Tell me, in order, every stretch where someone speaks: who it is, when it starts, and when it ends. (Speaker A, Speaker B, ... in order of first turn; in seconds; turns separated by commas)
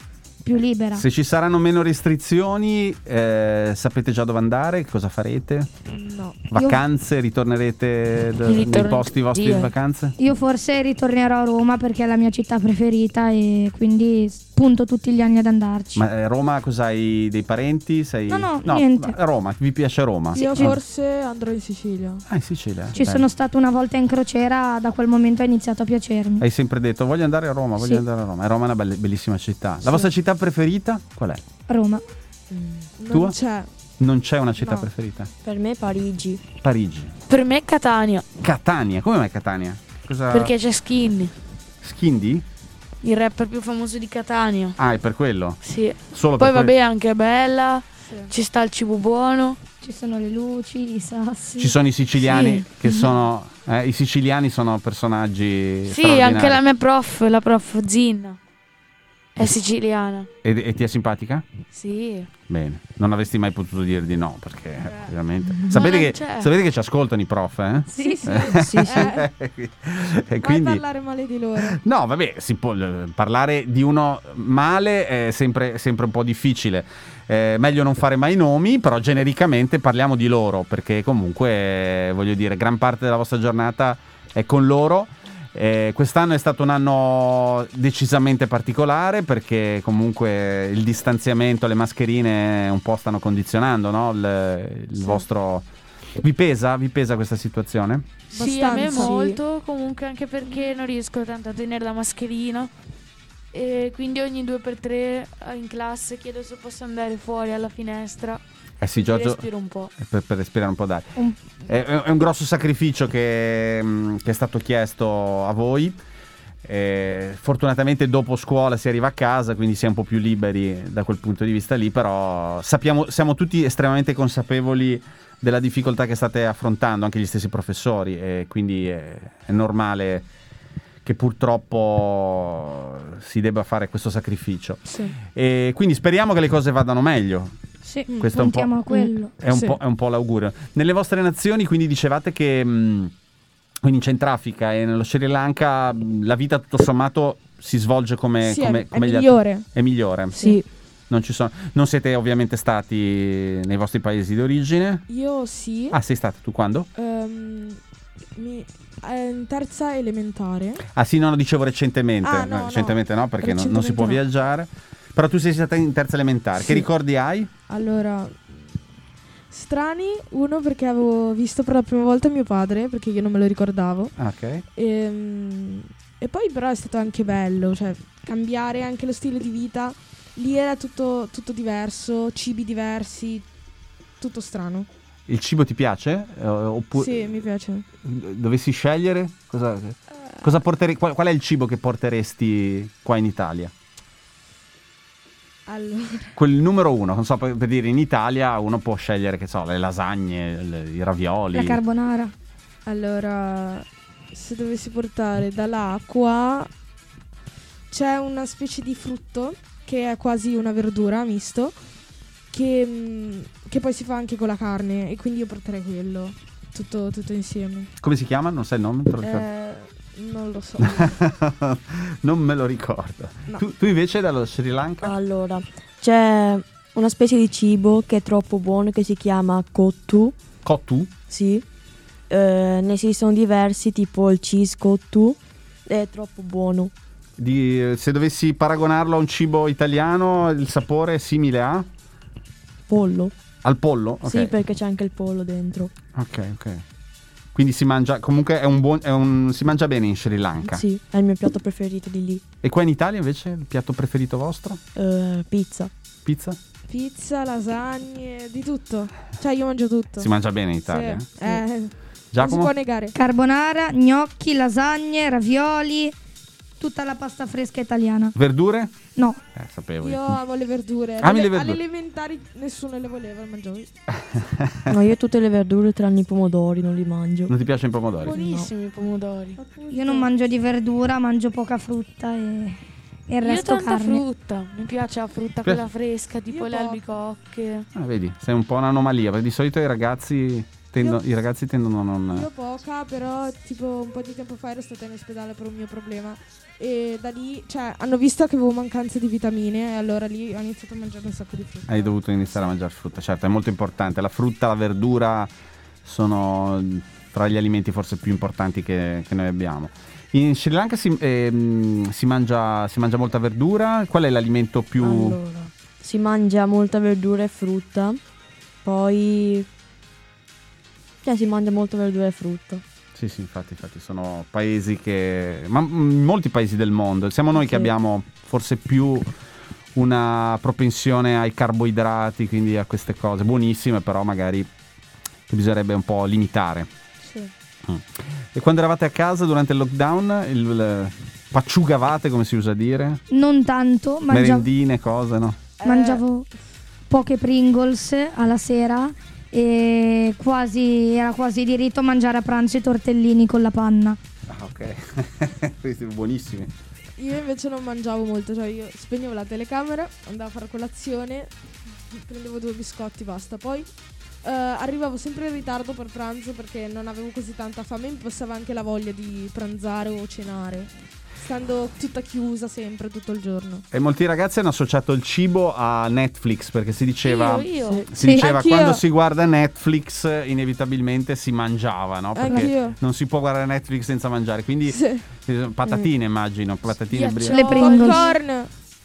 Speaker A: 0.4-1.0, Speaker B: 0.9-5.7, Speaker C: 5.9-6.4, Speaker B: 6.5-10.2, Speaker A: 6.5-6.8, Speaker D: 8.4-9.7, Speaker A: 10.2-16.0, Speaker B: 15.9-20.8, Speaker A: 18.3-19.1, Speaker C: 20.4-22.2, Speaker A: 20.4-20.7, Speaker B: 22.3-23.3, Speaker A: 22.9-26.4, Speaker B: 26.4-31.4, Speaker A: 31.7-32.0, Speaker E: 32.5-32.9, Speaker C: 33.0-33.7, Speaker B: 33.1-33.4, Speaker B: 34.0-35.3, Speaker C: 34.6-34.9, Speaker E: 35.4-36.5, Speaker B: 36.6-37.1, Speaker D: 37.3-38.3, Speaker B: 38.4-40.5, Speaker D: 40.3-41.3, Speaker B: 41.8-42.4, Speaker D: 43.0-44.8, Speaker B: 44.8-45.6, Speaker D: 45.6-49.6, Speaker B: 46.1-46.7, Speaker C: 48.0-48.3, Speaker A: 49.8-51.7, Speaker B: 51.6-56.6, Speaker D: 52.2-53.1, Speaker D: 55.9-58.4, Speaker D: 59.4-60.3, Speaker B: 60.4-61.5, Speaker D: 61.7-62.3, Speaker B: 62.5-70.8, Speaker D: 65.7-66.5, Speaker C: 68.0-69.2, Speaker A: 68.0-68.5, Speaker E: 68.5-69.2, Speaker C: 70.4-71.8, Speaker B: 71.6-95.7, Speaker B: 96.2-98.1, Speaker C: 98.3-99.4, Speaker D: 98.3-102.7, Speaker E: 98.8-99.1, Speaker D: 103.5-108.4, Speaker B: 108.8-109.4, Speaker D: 108.9-109.9, Speaker B: 110.0-116.0, Speaker B: 116.6-130.2, Speaker B: 131.0-137.6, Speaker C: 134.8-135.1, Speaker A: 137.8-139.3, Speaker B: 138.2-143.1, Speaker C: 139.5-139.8, Speaker B: 143.8-150.5, Speaker C: 148.4-149.7, Speaker E: 150.3-150.7, Speaker B: 151.1-155.0, Speaker C: 155.1-156.0, Speaker B: 155.9-156.9, Speaker C: 156.9-157.8, Speaker C: 158.3-160.8, Speaker B: 160.9-167.5, Speaker C: 162.2-164.2, Speaker C: 167.7-168.8, Speaker C: 169.5-174.1, Speaker B: 174.2-174.6, Speaker C: 174.7-183.4, Speaker C: 184.2-184.9, Speaker B: 185.3-187.2, Speaker C: 186.9-187.8, Speaker B: 188.0-193.7, Speaker C: 195.7-196.4, Speaker B: 196.3-201.8, Speaker A: 201.5-202.3, Speaker C: 202.8-206.7, Speaker C: 207.9-211.8, Speaker C: 212.5-217.9, Speaker B: 218.0-219.5, Speaker C: 219.2-221.1, Speaker B: 220.8-225.1, Speaker E: 225.0-230.3, Speaker B: 230.6-231.1, Speaker E: 231.3-231.6, Speaker E: 232.3-236.9, Speaker B: 237.4-241.9, Speaker E: 242.9-243.3, Speaker B: 243.6-244.5, Speaker E: 244.2-245.9, Speaker B: 246.1-246.8, Speaker B: 247.5-250.8, Speaker E: 250.7-252.4, Speaker B: 252.6-254.8, Speaker E: 254.9-255.9, Speaker B: 256.2-256.6, Speaker C: 256.9-260.3, Speaker B: 260.2-261.3, Speaker C: 260.9-263.1, Speaker B: 262.3-262.7, Speaker A: 263.1-266.1, Speaker A: 266.8-268.3, Speaker B: 268.4-268.9, Speaker A: 269.1-269.4, Speaker B: 269.5-270.4, Speaker C: 270.0-273.9, Speaker B: 271.2-271.8, Speaker B: 274.2-274.9, Speaker E: 274.9-277.5, Speaker B: 277.5-278.4, Speaker D: 278.2-279.6, Speaker E: 278.3-278.7, Speaker C: 279.6-280.3, Speaker A: 279.9-284.2, Speaker D: 283.4-287.9, Speaker C: 286.5-287.0, Speaker B: 287.9-292.5, Speaker C: 292.3-302.2, Speaker B: 301.9-305.5, Speaker B: 306.0-315.4, Speaker E: 315.0-318.2, Speaker E: 318.8-319.7, Speaker E: 321.2-322.8, Speaker B: 323.1-329.3, Speaker E: 327.6-327.9, Speaker B: 329.9-334.7, Speaker B: 335.5-336.9, Speaker B: 337.9-343.2, Speaker A: 343.3-344.7, Speaker B: 344.3-345.6, Speaker C: 345.8-346.2, Speaker A: 345.8-346.5, Speaker A: 347.1-354.2, Speaker B: 354.5-356.7, Speaker C: 357.2-361.5, Speaker C: 362.1-363.9, Speaker C: 364.4-373.8, Speaker B: 373.9-387.7, Speaker D: 377.2-378.0, Speaker A: 378.1-378.5, Speaker C: 378.5-379.0, Speaker C: 382.3-382.9, Speaker C: 384.9-385.2, Speaker D: 387.1-388.1, Speaker A: 387.5-388.4, Speaker C: 387.8-388.7